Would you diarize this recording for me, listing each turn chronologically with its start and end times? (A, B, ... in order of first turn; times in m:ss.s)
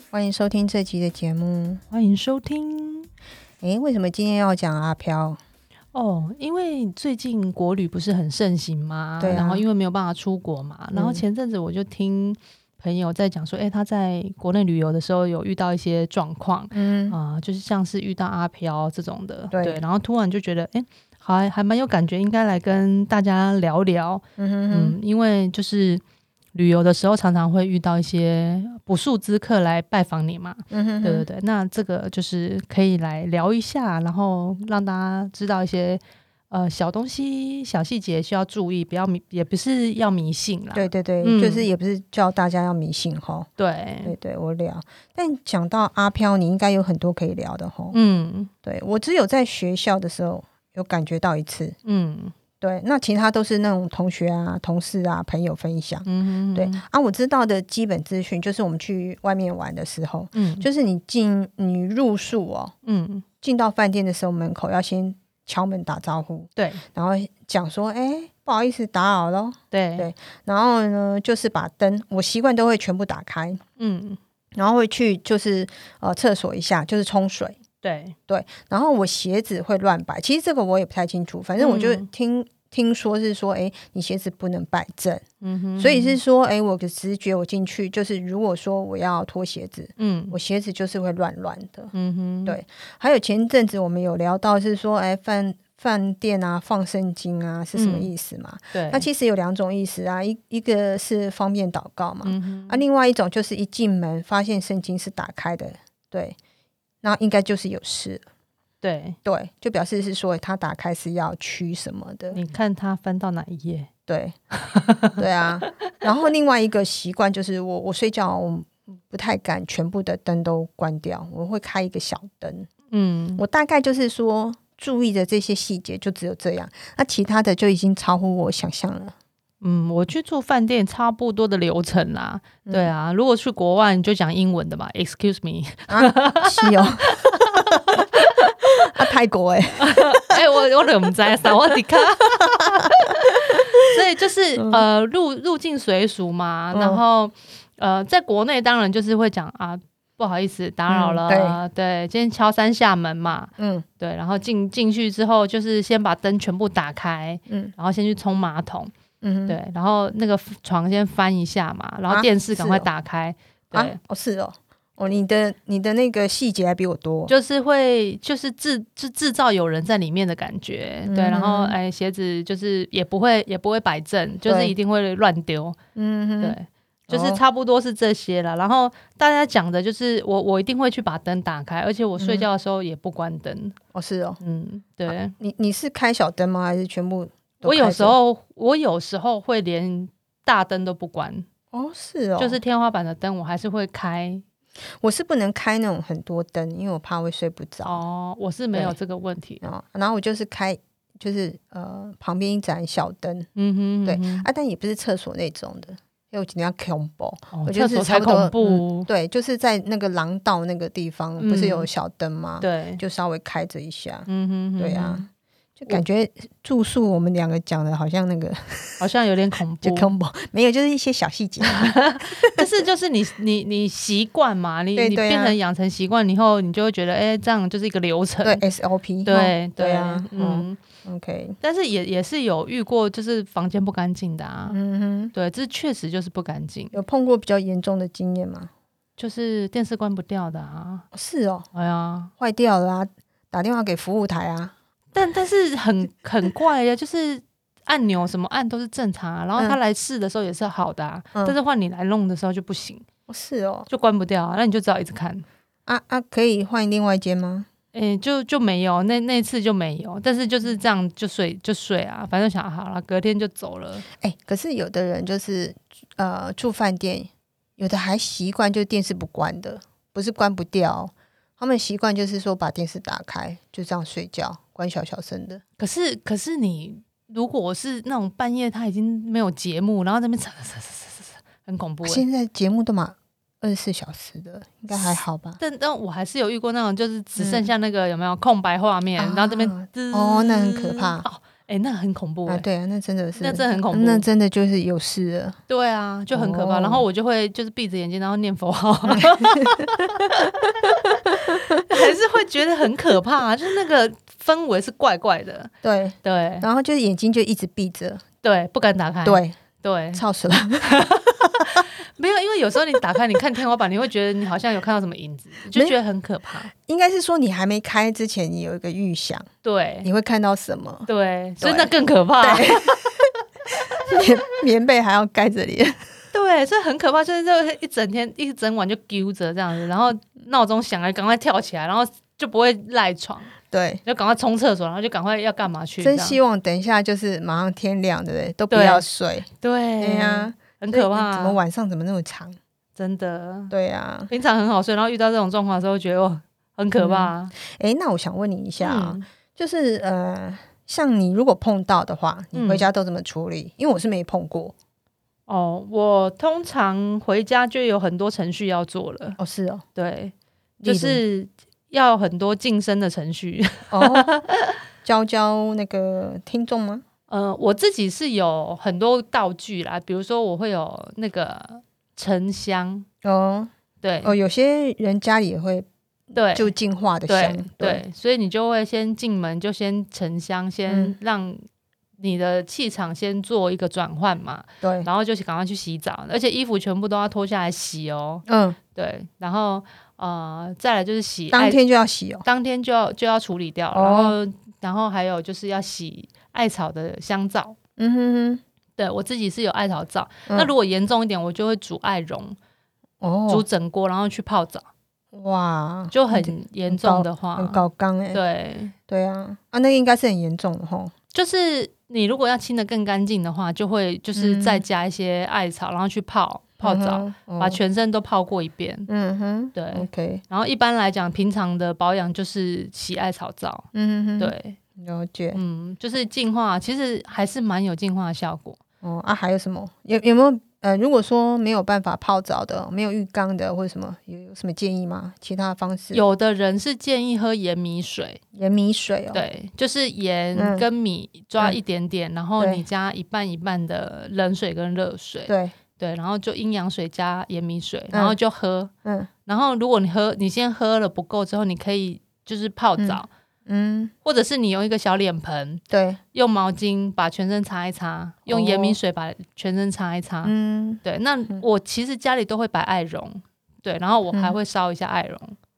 0:00.1-0:01.8 A
0:01.9-0:03.1 B
0:03.6-0:05.4 A
0:05.9-0:26.0 B
0:09.2-0:09.6 A
0:10.9-0:11.2 A
0:16.7-0:17.2 A
0:19.5-0:19.8 A
0:24.4-0:25.0 A
0:26.6-0:41.7 B
0:30.7-0:31.3 A
0:40.8-0:43.5 A
0:43.6-0:44.2 B
0:44.0-0:48.0 A
0:47.9-0:48.5 B
0:48.6-0:51.8 A
0:51.8-0:52.3 B
0:52.6-1:02.7 A
0:56.1-0:56.8 B
1:00.3-1:00.7 B
1:02.8-1:03.2 B
1:03.4-1:13.6 A
1:06.6-1:06.8 B
1:09.7-1:10.1 B
1:13.8-1:14.2 B
1:14.6-1:17.6 A
1:17.8-1:18.2 B
1:18.3-1:25.2 A
1:21.6-1:22.1 B
1:25.4-1:26.2 B
1:25.8-1:31.9 A
1:30.0-1:30.4 B
1:31.9-1:32.6 B
1:32.5-1:46.4 A
1:37.7-1:38.1 B
1:38.7-1:39.1 B
1:42.2-1:42.8 B
1:47.0-1:48.2 A
1:48.8-1:49.2 B
1:49.2-1:52.4 A
1:52.3-1:53.9 B
1:54.1-1:54.4 A
1:54.5-1:55.2 B
1:55.2-2:02.7 A
2:02.9-2:03.4 B
2:03.4-2:09.2 A
2:09.6-2:18.5 B
2:12.7-2:12.9 A
2:15.9-2:18.0 A
2:18.9-2:20.3 A
2:19.8-2:38.9 B
2:24.6-2:24.8 A
2:26.7-2:27.0 A
2:30.9-2:31.6 A
2:33.6-2:33.8 A
2:39.2-2:39.6 A
2:39.5-2:44.0 B
2:42.1-2:42.9 A
2:43.7-2:47.3 A
2:47.3-2:55.8 B
2:51.1-2:51.8 A
2:54.5-2:54.7 A
2:56.0-2:56.6 A
2:56.4-3:03.8 B
2:57.1-2:57.4 A
3:02.2-3:02.5 A
3:03.9-3:04.4 A
3:04.4-3:05.4 B
3:05.1-3:08.2 A
3:07.6-3:11.5 B
3:11.7-3:12.6 A
3:12.4-3:14.4 B
3:15.0-3:18.0 A
3:17.8-3:19.6 B
3:19.6-3:23.5 A
3:23.6-3:24.5 B
3:24.0-3:34.3 A
3:27.5-3:29.1 B
3:31.4-3:31.9 B
3:32.6-3:33.0 B
3:34.3-3:35.2 B
3:34.8-3:35.3 A
3:35.8-3:39.0 A
3:39.0-3:40.1 B
3:39.8-3:42.7 A
3:41.6-3:48.6 B
3:45.0-3:45.6 A
3:48.4-3:51.6 A
3:49.3-3:50.8 B
3:51.6-3:54.8 B
3:54.7-3:55.3 A
3:55.3-3:57.0 B
3:56.9-3:58.7 A
3:59.2-4:01.1 B
4:01.1-4:01.7 A
4:01.7-4:02.3 B
4:02.4-4:04.7 A
4:05.1-4:13.1 B
4:13.3-4:13.9 A
4:13.9-4:15.4 B
4:15.9-4:17.7 A
4:17.9-4:24.0 B
4:24.2-4:35.6 A
4:35.8-4:42.2 B
4:42.0-4:45.6 A
4:45.0-4:52.7 B
4:47.4-4:47.6 A
4:49.2-4:51.2 A
4:52.5-4:55.6 A
4:53.4-4:54.3 B
4:55.7-5:01.2 B
4:56.3-4:57.0 A
4:59.1-4:59.9 A
5:01.4-5:01.8 A
5:01.8-5:05.7 B
5:05.8-5:08.2 A
5:06.2-5:06.7 B
5:08.4-5:10.2 B
5:09.2-5:09.6 A
5:10.1-5:11.0 A
5:10.8-5:16.7 B
5:16.7-5:19.5 A
5:19.6-5:20.1 B
5:20.0-5:21.1 A
5:21.1-5:23.0 B
5:21.6-5:23.0 A
5:23.9-5:26.0 A
5:26.3-5:33.5 B
5:33.7-5:34.0 A
5:34.0-5:36.4 B
5:36.0-5:39.5 A
5:38.7-5:39.1 B
5:39.6-5:41.6 B
5:40.0-5:42.6 A
5:43.0-5:43.7 B
5:43.7-5:44.3 A
5:44.3-5:47.5 B
5:47.0-5:54.7 A
5:48.8-5:49.3 B
5:52.5-5:52.9 B
5:55.5-5:59.4 B
5:59.4-5:59.8 A
6:00.0-6:00.3 B
6:00.8-6:01.2 A
6:00.8-6:04.7 B
6:03.9-6:04.3 A
6:05.0-6:07.0 A
6:07.3-6:13.1 B
6:13.2-6:13.7 A
6:14.0-6:14.3 B
6:14.2-6:15.9 A
6:16.3-6:16.7 B
6:16.5-6:18.0 A
6:17.3-6:21.6 B
6:20.9-6:21.2 A
6:22.2-6:28.4 B
6:24.8-6:25.1 A
6:28.5-6:28.8 A
6:29.0-6:31.8 B
6:31.5-6:32.4 A
6:32.4-6:37.8 B
6:33.9-6:34.4 A
6:38.0-6:38.6 A
6:39.0-6:42.6 B
6:43.2-6:43.6 A
6:43.5-6:44.9 B
6:45.3-6:48.4 A
6:46.1-6:47.8 B
6:48.3-6:49.0 B
6:49.1-6:51.1 A
6:51.3-6:59.1 B
6:54.4-6:54.8 A
6:56.8-6:57.8 A
6:59.1-7:00.4 A
6:59.8-7:03.9 B
7:03.9-7:05.6 A
7:04.4-7:04.8 B
7:05.5-7:08.8 B
7:09.0-7:16.2 A
7:16.1-7:18.4 B
7:18.5-7:19.4 A
7:19.3-7:28.9 B
7:20.6-7:20.9 A
7:22.6-7:22.8 A
7:25.5-7:25.7 A
7:28.1-7:28.4 A
7:29.0-7:29.3 A
7:29.5-7:33.3 B
7:33.0-7:34.1 A
7:34.2-7:35.8 B
7:35.9-7:36.2 A
7:36.3-7:45.6 B
7:38.5-7:39.0 A
7:40.4-7:41.6 A
7:44.3-7:44.6 A